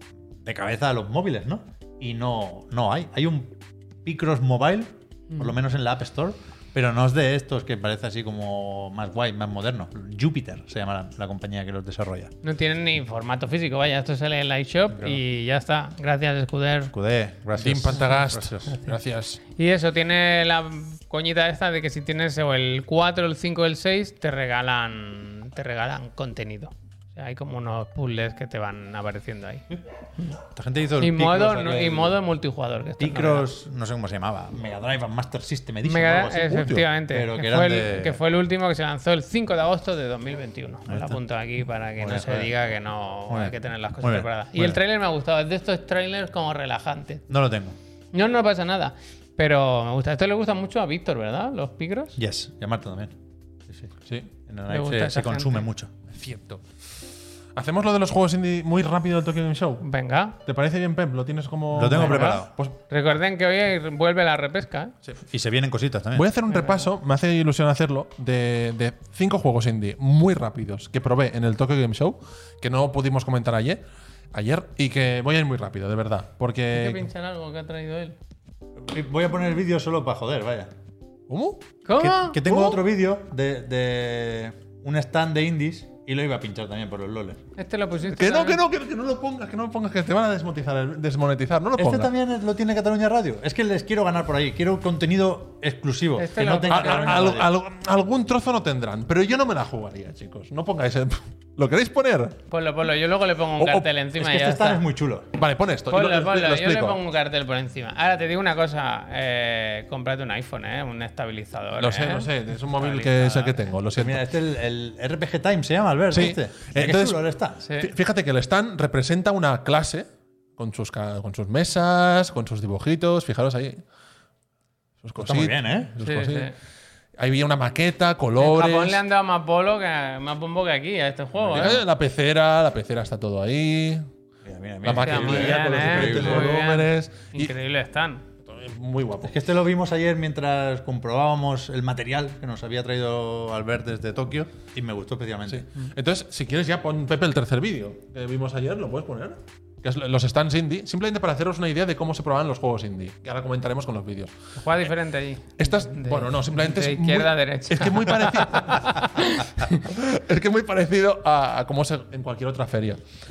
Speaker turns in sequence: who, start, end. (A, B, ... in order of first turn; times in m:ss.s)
0:00.4-0:12.3 A
0:12.4-0:16.9 B
0:16.9-0:18.8 A
0:17.6-0:19.4 C
0:19.6-0:29.6 B
0:30.5-0:32.2 A
0:31.0-0:33.5 B
0:33.0-0:38.2 A
0:35.8-0:47.2 B
0:36.4-0:36.8 C
0:40.9-0:41.2 A
0:42.0-0:42.5 A
0:43.3-0:44.8 A
0:47.3-0:47.8 A
0:48.1-0:52.2 B
0:52.2-0:53.1 A
0:54.5-0:55.9 A
0:54.7-0:55.6 B
0:56.1-0:56.6 C
0:57.5-0:59.8 C
0:59.8-1:00.4 B
1:00.4-1:02.8 C
1:01.7-1:02.5 A
1:01.9-1:04.9 B
1:05.3-1:06.3 A
1:06.1-1:17.1 C
1:06.5-1:06.8 B
1:16.7-1:18.2 B
1:18.8-1:20.7 A
1:21.3-1:21.6 C
1:21.8-1:22.4 B
1:22.0-1:27.4 A
1:22.4-1:22.8 C
1:27.6-1:28.6 B
1:28.1-1:32.1 C
1:31.8-1:37.5 A
1:36.2-1:37.3 B
1:36.7-1:42.4 C
1:42.5-1:44.8 B
1:43.6-1:43.9 C
1:44.2-1:45.3 A
1:45.3-1:47.0 C
1:45.9-1:53.6 B
1:51.8-1:54.3 C
1:53.9-1:57.6 A
1:56.1-1:57.2 C
1:57.6-1:57.9 B
1:57.8-2:03.8 C
2:05.0-2:06.5 C
2:05.2-2:05.9 A
2:06.0-2:06.5 B
2:07.2-2:09.0 C
2:08.4-2:11.8 B
2:11.5-2:14.0 C
2:14.4-2:16.5 A
2:14.8-2:17.5 C
2:14.9-2:18.2 B
2:18.4-2:19.3 C
2:19.2-2:25.7 A
2:25.5-2:34.3 C
2:34.6-2:39.8 B
2:35.6-2:43.0 C